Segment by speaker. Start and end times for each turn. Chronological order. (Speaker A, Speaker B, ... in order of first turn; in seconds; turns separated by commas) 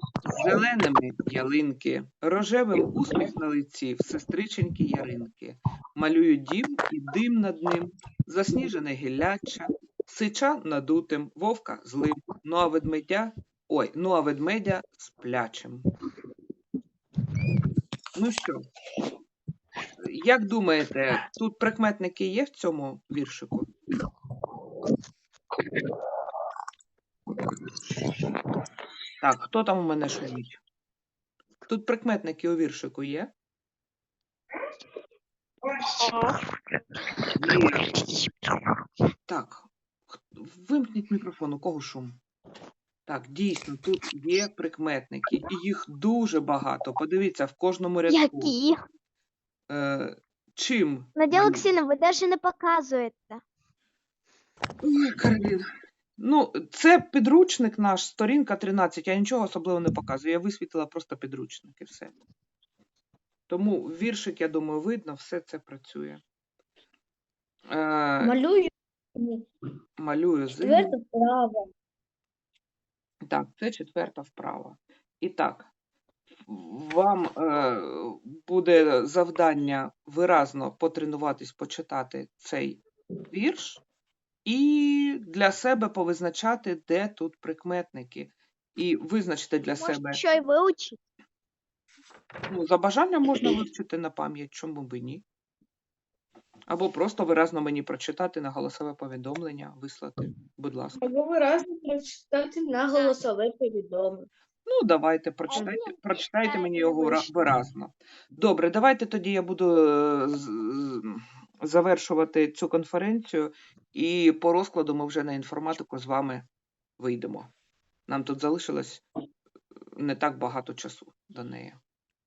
Speaker A: 0.2-15.8, Speaker A: 18.1-18.6, Speaker A: 20.0-23.7, Speaker A: 29.2-30.6, Speaker A: 31.7-33.3, Speaker A: 37.4-37.9, Speaker A: 39.3-42.2, Speaker A: 43.1-48.5, Speaker B: 48.1-48.8, Speaker A: 49.7-51.7, Speaker B: 51.1-53.4, Speaker A: 54.8-55.6, Speaker A: 56.2-62.1, Speaker A: 63.5-66.2, Speaker A: 67.7-68.4, Speaker C: 68.2-69.4, Speaker A: 70.0-71.0, Speaker C: 70.6-71.6, Speaker A: 73.2-75.7, Speaker A: 76.5-83.8, Speaker A: 84.4-90.2, Speaker B: 89.8-91.0, Speaker A: 92.5-95.2, Speaker A: 96.7-101.0, Speaker D: 101.0-104.3, Speaker A: 104.7-116.4, Speaker B: 105.5-107.3, Speaker A: 117.0-117.5, Speaker A: 118.1-119.0, Speaker A: 120.0-121.8